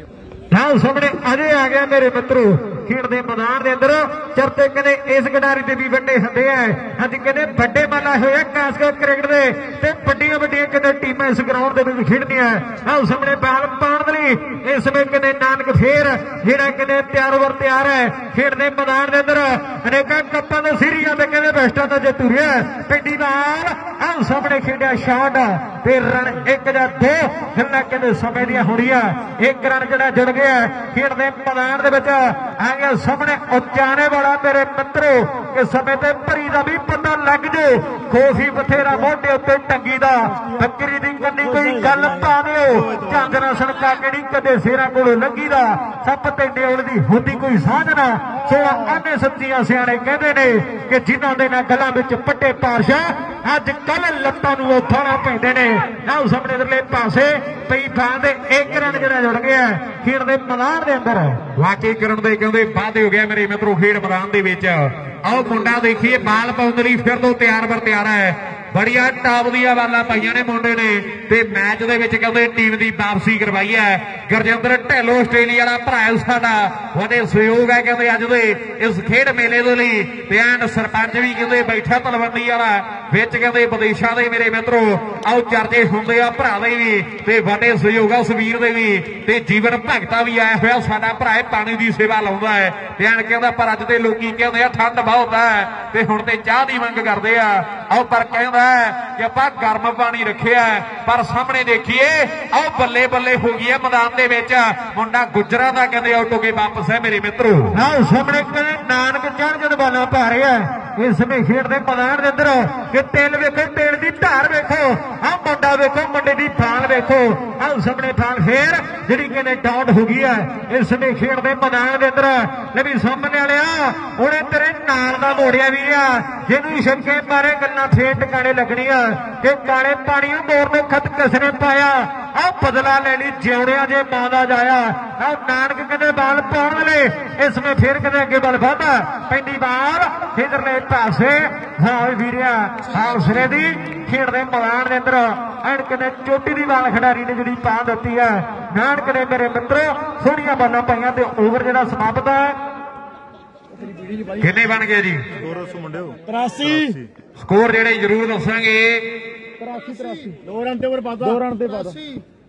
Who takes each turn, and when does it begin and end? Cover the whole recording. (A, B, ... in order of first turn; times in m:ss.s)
0:00.5-1:01.4 A
0:41.4-0:42.3 B
0:42.7-0:43.3 C
1:01.6-1:47.8 D
1:47.7-2:32.6 A
2:34.0-2:34.4 B
2:34.4-2:35.3 D
2:35.4-2:37.1 C
2:36.3-2:37.0 B
2:37.4-2:39.1 D
2:39.6-2:42.0 B
2:41.2-2:41.8 C